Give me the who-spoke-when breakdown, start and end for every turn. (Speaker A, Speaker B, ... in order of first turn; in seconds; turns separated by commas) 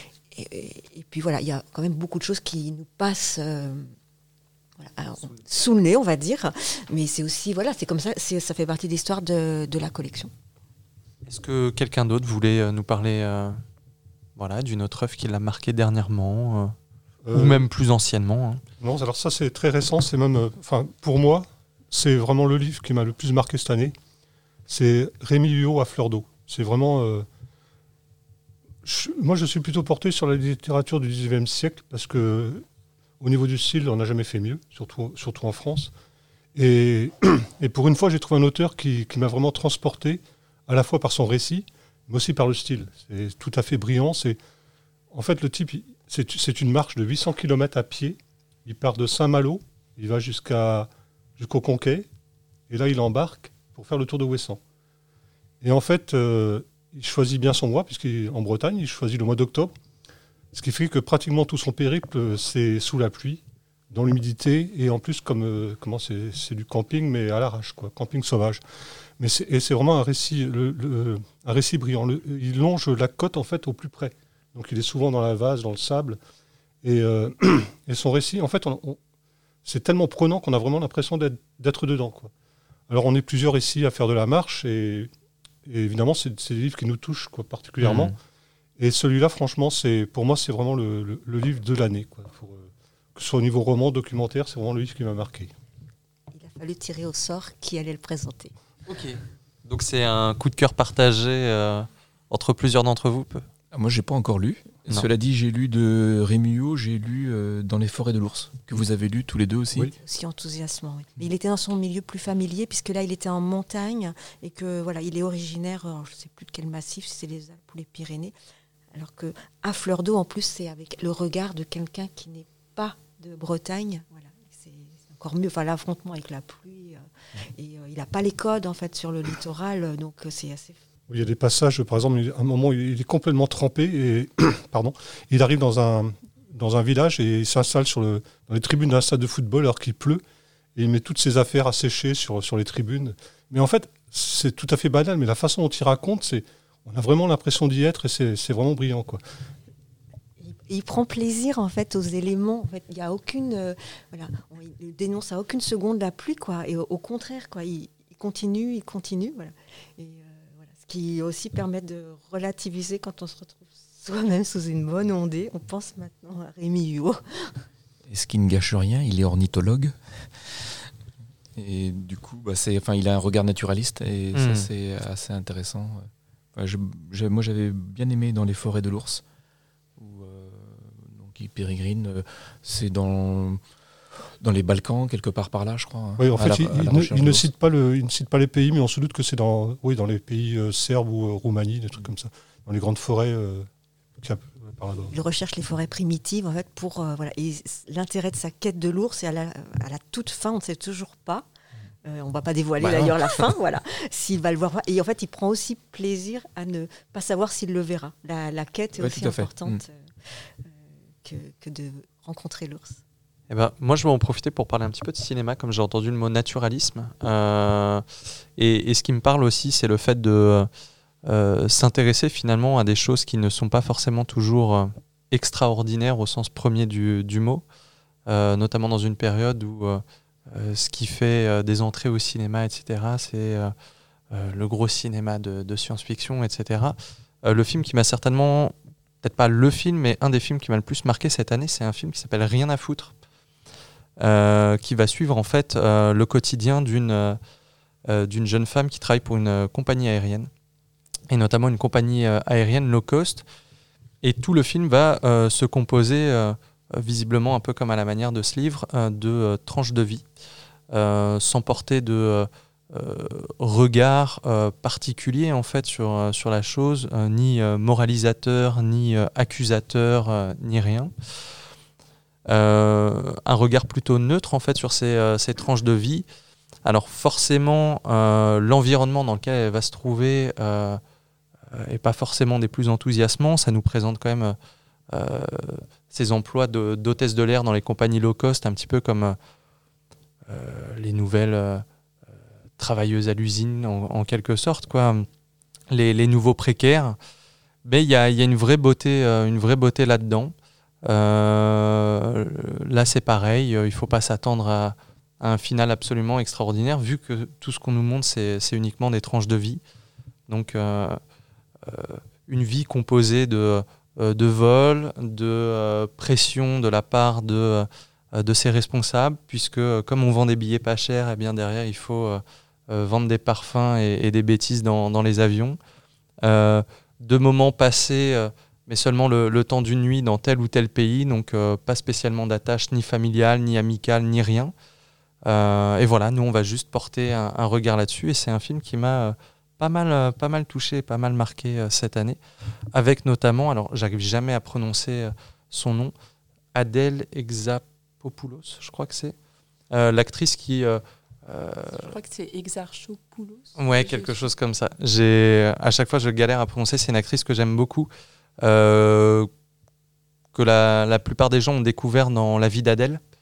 Speaker A: 0.3-3.9, Speaker A: 4.8-10.3, Speaker B: 11.2-13.6, Speaker B: 14.4-16.7, Speaker C: 17.2-17.6, Speaker B: 17.3-18.6, Speaker C: 18.8-23.9, Speaker C: 24.7-27.3, Speaker C: 28.8-32.6, Speaker C: 33.2-35.9, Speaker C: 36.5-44.4, Speaker C: 45.1-52.1, Speaker C: 52.7-54.6, Speaker C: 55.6-59.7, Speaker C: 60.5-68.6, Speaker C: 69.2-76.2, Speaker C: 76.8-79.0, Speaker C: 79.6-82.3, Speaker C: 82.9-85.1, Speaker C: 85.6-88.1, Speaker B: 87.8-88.1, Speaker C: 88.8-95.5, Speaker A: 96.3-98.5, Speaker B: 98.9-103.4, Speaker D: 103.7-109.9, Speaker A: 109.9-118.3, Speaker A: 118.9-127.0, Speaker A: 127.5-130.8, Speaker C: 131.1-140.2, Speaker C: 140.7-149.2, Speaker A: 150.4-167.6, Speaker D: 168.1-169.9, Speaker D: 171.6-179.2, Speaker B: 174.3-174.7, Speaker D: 180.0-183.6, Speaker D: 184.4-187.5, Speaker C: 186.2-193.7, Speaker C: 194.2-195.1, Speaker A: 195.1-201.4, Speaker A: 202.0-210.7, Speaker D: 202.8-203.1, Speaker D: 209.0-209.8, Speaker A: 211.2-213.0, Speaker B: 213.5-218.0, Speaker B: 218.6-220.7, Speaker B: 221.2-227.6, Speaker B: 228.3-233.7, Speaker B: 234.3-243.1, Speaker B: 244.2-247.4, Speaker B: 248.1-250.5, Speaker B: 251.3-253.4, Speaker B: 254.2-260.2, Speaker B: 260.9-271.1, Speaker B: 272.5-276.2, Speaker B: 276.8-281.0, Speaker B: 281.7-284.6, Speaker B: 285.1-289.4, Speaker B: 290.5-291.8, Speaker B: 292.8-295.3, Speaker B: 295.9-297.2, Speaker B: 297.8-300.5, Speaker B: 301.1-309.8, Speaker B: 310.5-311.2, Speaker B: 311.9-325.8, Speaker B: 326.4-334.7, Speaker B: 335.4-342.4, Speaker B: 342.9-346.1, Speaker B: 346.7-349.3, Speaker B: 349.9-352.1, Speaker E: 351.9-354.5, Speaker B: 353.8-358.1, Speaker B: 358.6-359.5, Speaker B: 360.5-363.2